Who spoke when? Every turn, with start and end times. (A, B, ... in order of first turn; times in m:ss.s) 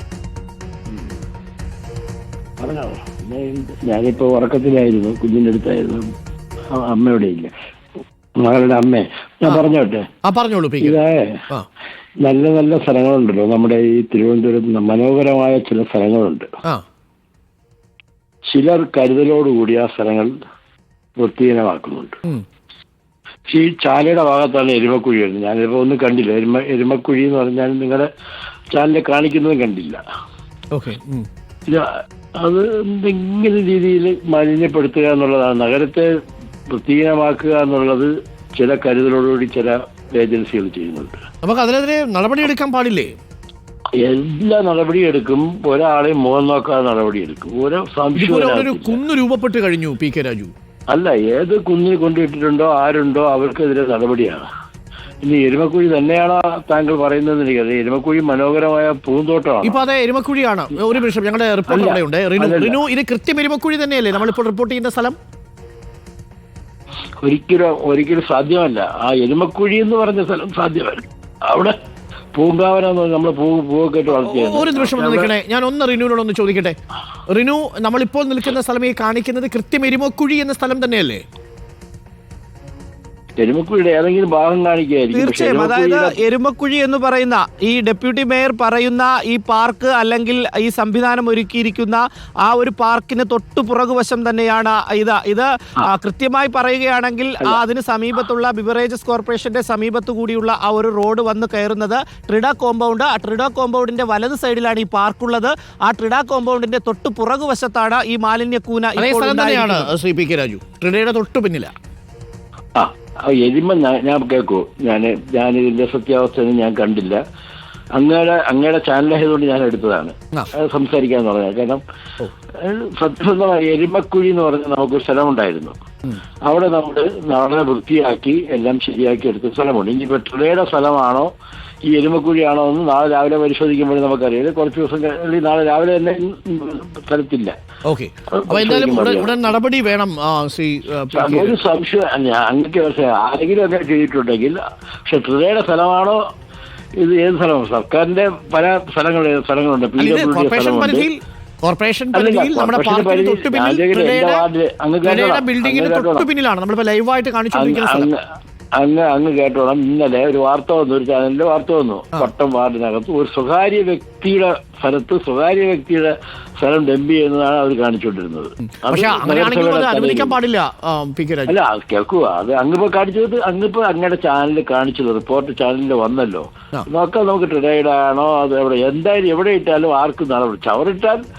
0:02.6-0:06.0 A
0:06.7-0:07.5 A
0:08.4-0:10.1 A
0:10.2-0:11.0 B
0:10.8-0:11.4 A
0:12.2-0:16.5 A
0:18.5-0:20.3 A
0:21.2-0:22.2 A
0:23.5-0:28.1 A
0:28.7-0:30.0 A
0:30.7-0:31.3 B
0:31.7-0:36.1 A
0:36.7-0:41.2 A
0:41.4-0:43.1 B
0:44.0-0:49.0 A
0:48.2-0:50.5 B
0:50.9-0:54.5 A
0:55.2-0:59.8 A
0:59.6-1:05.2 B
1:01.7-1:02.8 A
1:07.2-1:11.8 A
1:12.3-1:15.3 A
1:14.2-1:16.8 B
1:17.3-1:21.2 B
1:23.4-1:26.2 A
1:25.1-1:49.9 C
1:49.0-1:51.7 B
1:52.8-1:57.2 A
1:58.0-2:01.8 A
2:02.5-2:05.8 A
2:06.4-2:11.3 A
2:11.9-2:17.5 A
2:17.9-2:21.6 B
2:18.3-2:19.4 A
2:21.1-2:26.2 A
2:27.0-2:31.1 A
2:30.0-2:34.4 B
2:32.1-2:36.3 A
2:35.0-2:38.1 B
2:37.5-2:38.2 A
2:38.8-2:50.4 A
2:48.7-2:51.5 B
2:51.5-3:01.2 A